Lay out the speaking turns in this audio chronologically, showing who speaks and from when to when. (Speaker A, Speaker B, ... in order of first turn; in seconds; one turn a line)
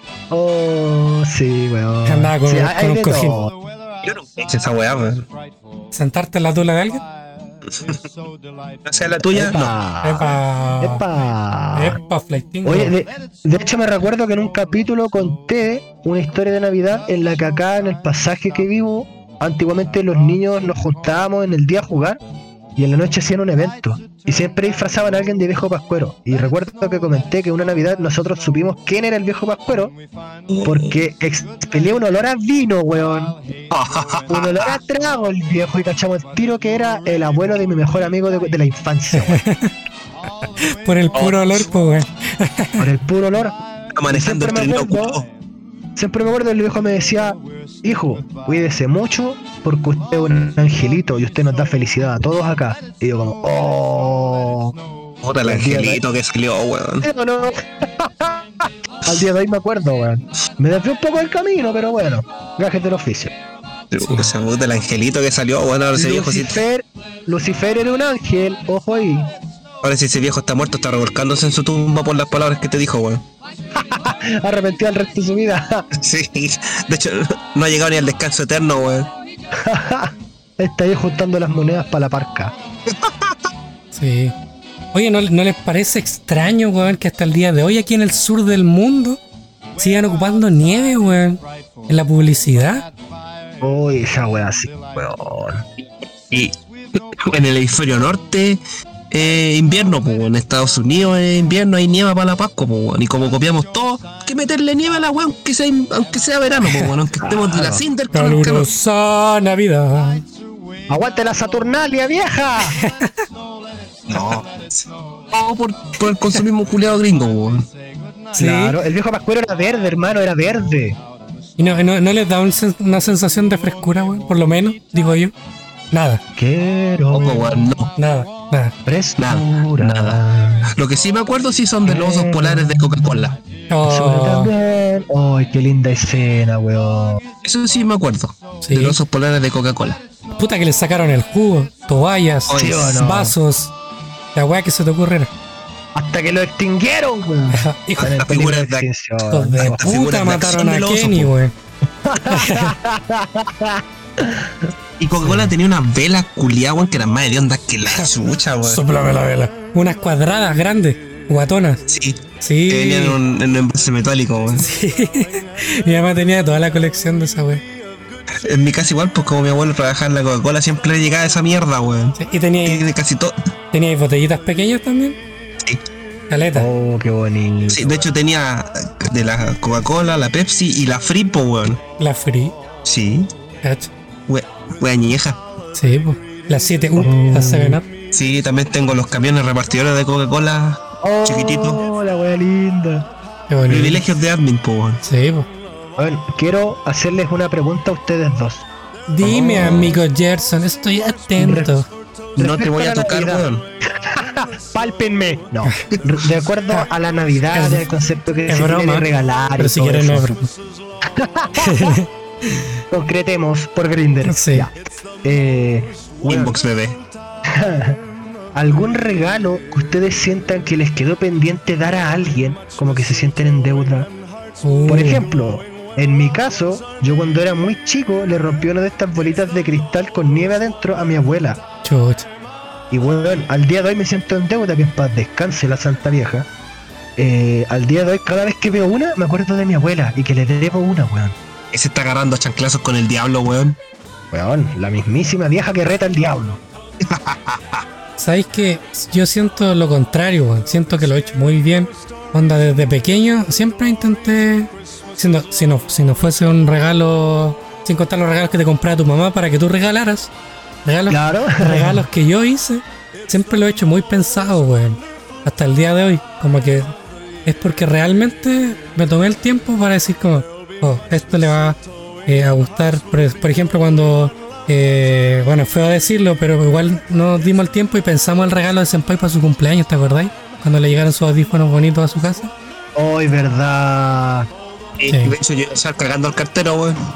Speaker A: 0.3-3.5
Speaker B: 2.1-3.4
Speaker C: 4.0-5.3
Speaker B: 5.9-7.0
Speaker C: 7.7-8.1
Speaker C: 8.8-9.7
Speaker A: 9.2-12.0
Speaker B: 10.0-11.0
Speaker B: 11.7-12.9
Speaker A: 12.7-22.2
Speaker A: 22.8-29.9
Speaker C: 30.5-30.9
Speaker A: 30.6-33.4
Speaker C: 33.7-34.8
Speaker A: 34.3-39.4
Speaker B: 39.1-39.7
Speaker B: 40.6-42.9
Speaker C: 41.1-41.6
Speaker A: 42.8-43.6
Speaker C: 44.0-45.3
Speaker A: 44.1-45.2
Speaker A: 46.0-54.8
Speaker C: 55.2-57.1
Speaker A: 55.4-56.0
Speaker A: 57.0-63.3
Speaker C: 63.9-66.6
Speaker B: 64.0-64.3
Speaker A: 66.0-69.3
Speaker C: 69.8-73.2
Speaker A: 73.7-75.9
Speaker C: 75.9-79.1
Speaker A: 79.6-82.5
Speaker C: 82.9-83.4
Speaker B: 83.9-84.3
Speaker B: 84.9-89.2
Speaker B: 89.8-92.9
Speaker A: 93.6-95.7
Speaker C: 95.8-108.7
Speaker B: 106.7-106.9
Speaker A: 107.2-107.8
Speaker B: 108.1-110.2
Speaker A: 110.9-112.8
Speaker B: 112.8-113.2
Speaker C: 114.1-117.7
Speaker B: 118.3-118.8
Speaker A: 118.4-121.0
Speaker B: 121.6-125.3
Speaker B: 125.9-126.2
Speaker A: 126.4-127.7
Speaker C: 127.1-127.9
Speaker B: 128.0-128.7
Speaker A: 128.9-130.7
Speaker C: 129.2-133.4
Speaker A: 131.9-133.1
Speaker B: 133.7-134.5
Speaker A: 133.9-137.2
Speaker C: 137.4-140.0
Speaker B: 138.6-139.0
Speaker B: 140.4-143.7
Speaker C: 142.5-143.0
Speaker A: 142.6-143.3
Speaker B: 144.3-145.3
Speaker A: 145.9-149.8
Speaker B: 147.5-148.2
Speaker C: 148.0-148.9
Speaker B: 149.2-151.5
Speaker C: 149.6-151.3
Speaker A: 152.0-154.7
Speaker B: 152.2-152.7
Speaker C: 155.0-158.8
Speaker B: 155.2-155.5
Speaker B: 158.7-161.8
Speaker C: 161.9-164.7
Speaker B: 162.4-163.2
Speaker B: 164.6-167.6
Speaker C: 168.4-173.3
Speaker B: 172.2-172.9
Speaker B: 173.7-175.2
Speaker B: 176.3-176.7
Speaker A: 176.6-178.1
Speaker C: 177.7-181.8
Speaker B: 182.0-182.6
Speaker C: 182.8-183.3
Speaker B: 183.6-183.9
Speaker C: 184.3-185.4
Speaker B: 185.7-187.9
Speaker A: 187.0-187.8
Speaker C: 188.1-191.8
Speaker A: 191.0-193.1
Speaker B: 193.5-194.0
Speaker C: 193.7-195.0
Speaker B: 195.0-195.5
Speaker A: 196.0-198.7
Speaker B: 199.1-201.9
Speaker C: 199.2-200.0
Speaker A: 199.5-199.9
Speaker A: 201.4-201.7
Speaker C: 202.4-203.7
Speaker A: 202.4-203.5
Speaker A: 204.0-210.3
Speaker B: 207.5-207.8
Speaker B: 208.5-209.1
Speaker B: 209.6-210.6
Speaker A: 211.2-212.0
Speaker B: 211.6-212.7
Speaker A: 212.9-216.6
Speaker B: 214.2-214.7
Speaker C: 216.2-217.0
Speaker A: 217.5-218.0
Speaker A: 218.6-224.1
Speaker B: 224.6-225.2
Speaker A: 224.9-231.6
Speaker B: 231.8-232.3
Speaker A: 232.9-236.5
Speaker A: 237.2-241.4
Speaker C: 241.7-243.8
Speaker A: 244.3-246.6
Speaker C: 247.1-247.8
Speaker B: 248.2-260.3
Speaker B: 260.9-266.9
Speaker A: 261.1-262.0
Speaker B: 267.5-282.5
Speaker A: 283.0-284.5
Speaker C: 285.0-287.0
Speaker B: 285.1-285.4